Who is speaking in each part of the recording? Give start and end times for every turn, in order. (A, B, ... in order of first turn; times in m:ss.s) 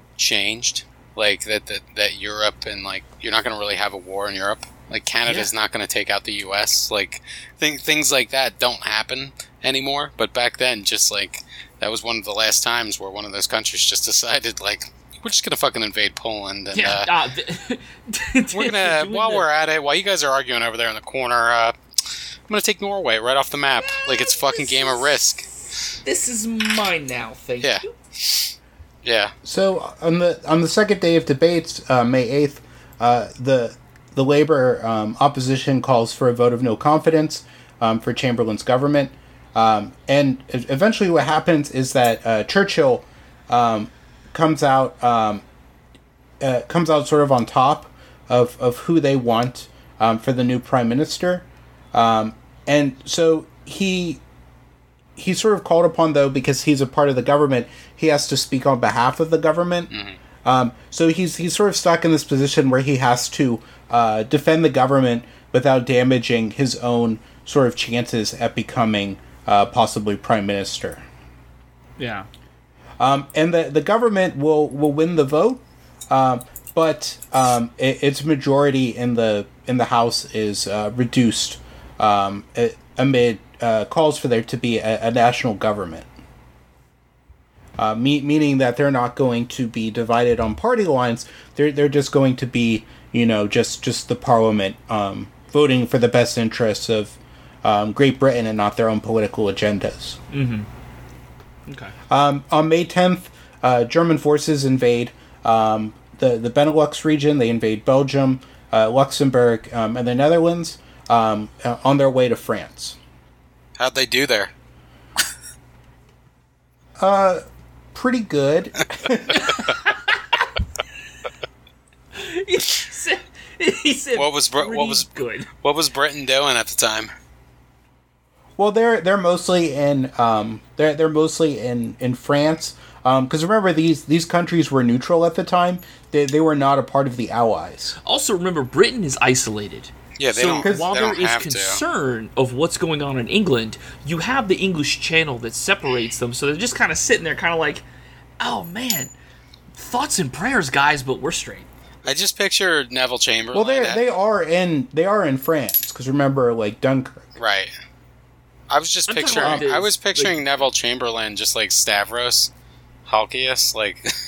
0:00.2-0:17.1 A
0:16.7-0:19.5 B
0:18.5-0:21.8 A
0:22.5-0:25.5 A
0:23.8-0:25.1 B
0:26.0-0:27.9 B
0:27.6-0:29.3 A
0:29.4-0:45.4 C
0:46.4-0:54.2 C
0:55.2-0:59.9 C
0:59.9-1:00.2 A
1:00.4-1:11.0 C
1:12.0-1:12.3 B
1:13.0-1:26.0 C
1:27.8-1:40.2 C
1:40.3-1:40.7 B
1:41.7-1:41.9 B
1:42.1-1:53.0 C
1:53.8-1:54.5 A
1:57.0-1:57.4 C
1:57.9-1:59.5 C
1:59.3-2:00.4 B
2:02.1-2:05.5 B
2:04.1-2:07.1 A
2:08.6-2:18.0 C
2:18.0-2:27.8 B
2:20.2-2:21.8 A
2:20.6-2:20.9 C
2:28.4-2:29.1 B
2:29.8-2:31.7 B
2:32.0-2:34.0 A
2:33.5-2:37.3 C
2:37.4-2:37.7 A
2:38.7-2:42.5 A
2:39.1-2:40.4 B
2:39.4-2:39.7 C
2:43.1-2:44.1 A